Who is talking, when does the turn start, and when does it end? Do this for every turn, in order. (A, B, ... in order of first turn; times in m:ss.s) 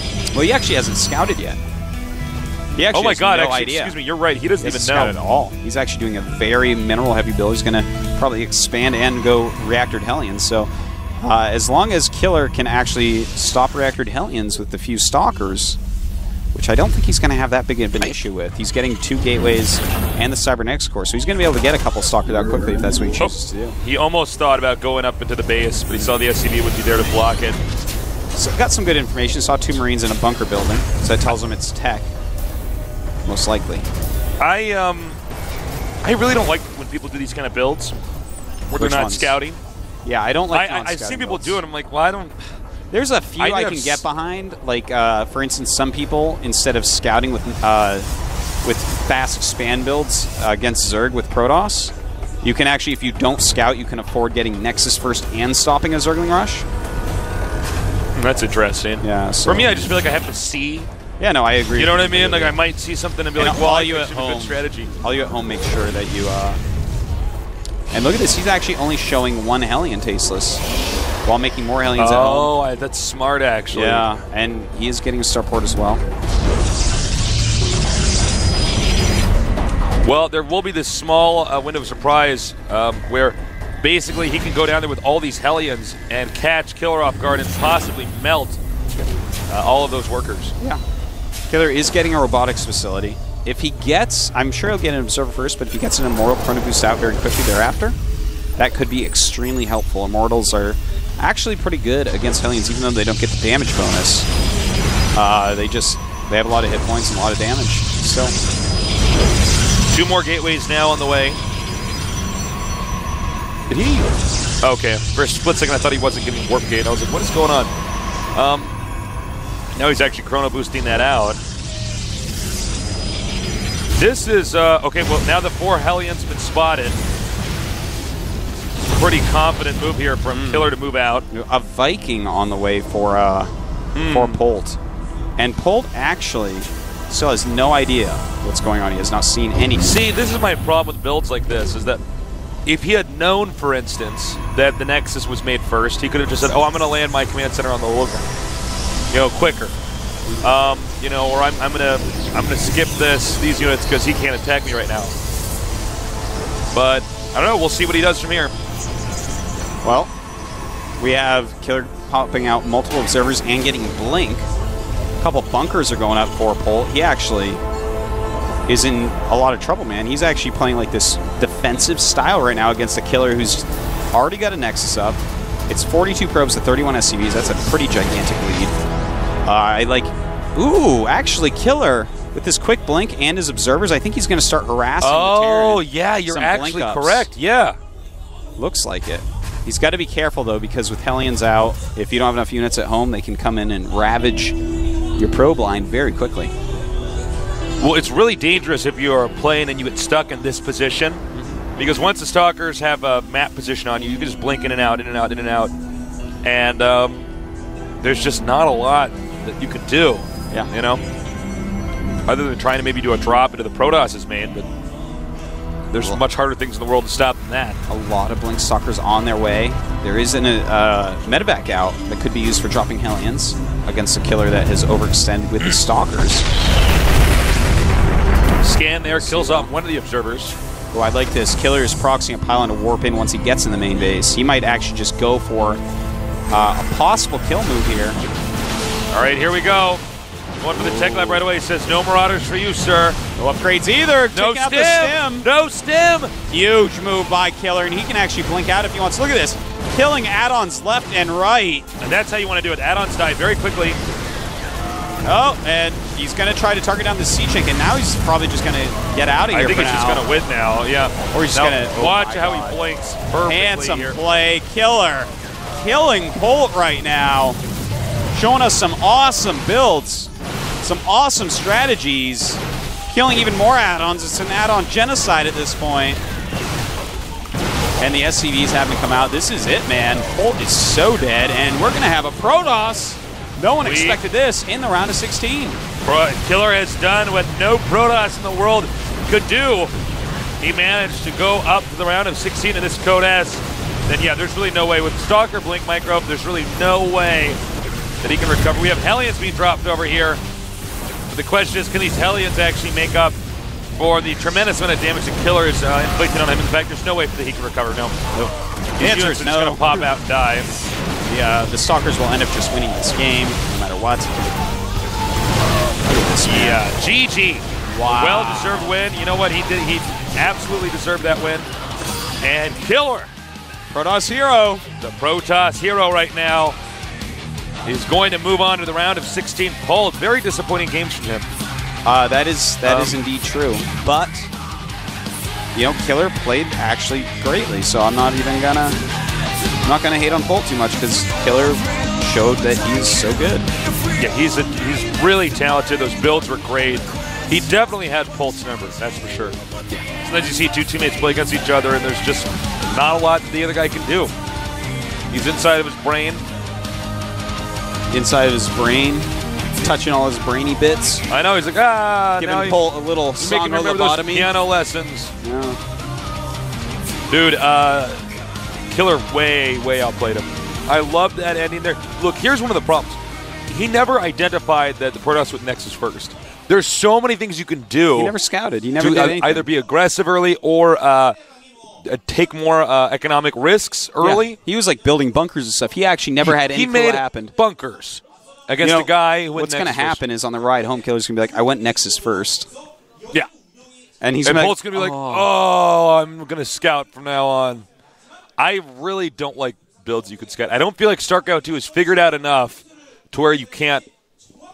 0:00.3-0:01.6 A
0:02.8-0:03.9 A
0:02.9-0:05.2 B
0:04.6-0:10.7 A
0:11.2-0:15.8 A
0:16.5-0:23.8 A
0:23.2-0:27.6 B
0:28.3-0:32.1 A
0:33.2-0:33.9 A
0:34.4-0:35.2 B
0:36.0-0:37.9 B
0:38.7-0:39.6 B
0:38.7-0:39.4 A
0:40.0-0:41.6 A
0:40.5-0:42.4 B
0:42.9-0:48.1 A
0:43.4-0:44.0 B
0:48.6-0:56.6 A
0:58.1-1:00.9 B
0:59.0-0:59.9 A
1:01.2-1:02.6 A
1:01.8-1:04.9 B
1:03.4-1:06.6 A
1:07.9-1:10.6 A
1:11.2-1:12.5 A
1:12.0-1:14.1 B
1:13.7-1:16.0 A
1:20.0-1:28.6 B
1:29.5-1:30.5 B
1:31.5-1:38.0 A
1:38.6-1:44.3 A
1:45.1-1:48.3 A
1:49.8-1:51.4 B
1:53.7-1:54.1 B
1:54.6-1:57.7 B
1:58.3-1:58.7 B
1:59.7-2:01.4 B
2:03.9-2:07.0 B
2:08.9-2:11.2 B
2:10.4-2:10.7 A
2:11.3-2:13.5 A
2:13.9-2:14.4 B
2:14.1-2:14.8 A
2:15.4-2:19.9 A
2:19.8-2:22.0 B
2:22.6-2:28.3 B
2:29.1-2:29.7 B
2:30.4-2:35.1 B
2:36.7-2:38.5 B
2:39.8-2:40.1 A
2:41.0-2:44.4 A
2:45.2-2:47.6 A
2:48.7-2:58.7 A
2:59.4-3:07.3 A
3:05.0-3:07.8 B
3:08.6-3:14.6 A
3:15.2-3:16.5 A
3:17.8-3:21.2 B
3:21.8-3:25.7 B
3:26.4-3:27.2 B
3:28.0-3:31.0 B
3:32.3-3:34.7 B
3:35.9-3:37.8 B
3:37.9-3:46.5 A
3:48.6-3:50.6 B
3:49.1-3:49.7 A
3:50.9-3:55.8 A
3:56.5-3:58.2 A
3:59.1-4:00.0 B
4:00.6-4:03.2 B
4:00.8-4:01.4 A
4:03.4-4:05.5 A
4:04.3-4:06.3 B
4:06.5-4:11.9 A
4:12.0-4:14.0 B
4:15.2-4:20.2 A
4:19.5-4:24.2 B
4:21.3-4:22.8 A
4:23.5-4:27.6 A
4:28.3-4:30.3 A
4:30.8-4:36.2 A
4:38.0-4:45.8 A
4:43.8-4:44.2 B
4:46.0-4:49.9 B
4:50.6-4:57.6 B
4:58.2-5:00.4 B
5:01.3-5:03.4 B
5:03.9-5:08.2 B
5:08.3-5:10.1 A
5:09.0-5:10.7 B
5:11.3-5:14.6 A
5:16.0-5:16.8 A
5:16.4-5:21.7 B
5:17.9-5:18.9 A
5:22.4-5:23.3 B
5:23.9-5:24.8 A
5:25.0-5:26.8 B
5:27.8-5:31.5 B
5:32.0-5:34.5 A
5:32.8-5:33.2 B
5:35.7-5:39.0 A
5:39.8-5:43.7 A
5:44.2-5:49.6 B
5:50.2-5:54.3 B
5:55.3-5:56.4 B
5:58.1-6:01.2 A
6:01.3-6:05.3 B
6:02.4-6:04.5 A
6:05.4-6:05.8 A
6:07.3-6:08.2 B
6:08.9-6:18.3 B
6:18.1-6:19.6 A
6:19.0-6:21.3 B
6:22.0-6:24.6 B
6:24.2-6:27.5 A
6:26.4-6:30.2 B
6:28.8-6:32.7 A
6:34.2-6:35.5 A
6:34.4-6:37.8 B
6:38.6-6:44.0 B